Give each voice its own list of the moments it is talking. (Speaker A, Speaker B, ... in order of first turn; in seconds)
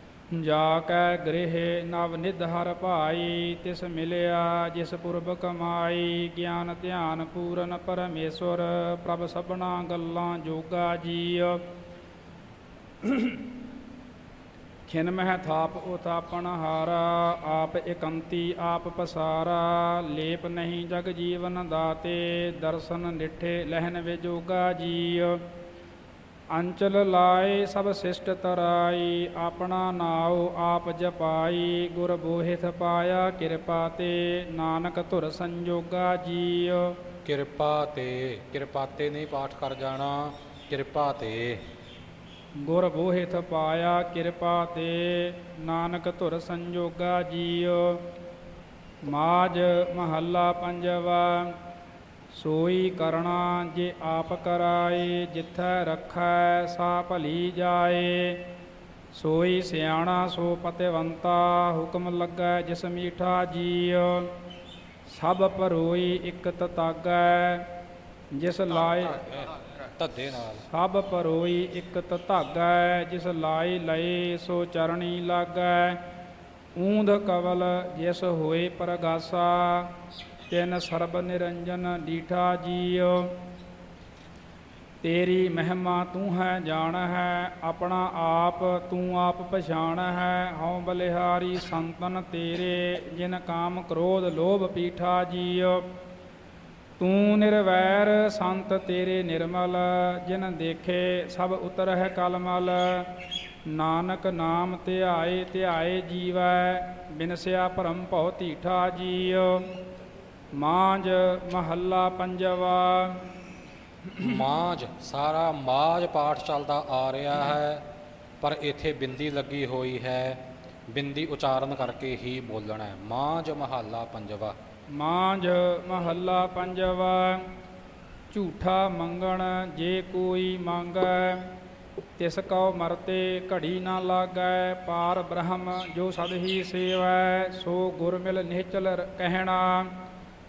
Speaker A: 0.3-11.6, 13.0-13.4, 14.9-25.4, 26.5-37.0, 42.6-48.0, 49.0-51.5, 52.3-58.4, 59.1-64.3, 65.1-67.7, 68.3-69.2, 70.7-76.0, 76.8-79.9, 80.5-83.3, 85.0-95.8, 97.0-103.2, 103.7-109.6, 110.5-113.2, 125.0-127.5, 128.3-131.5, 132.2-139.9
Speaker B: 37.2-41.6, 69.2-70.6, 114.2-117.8, 118.4-124.5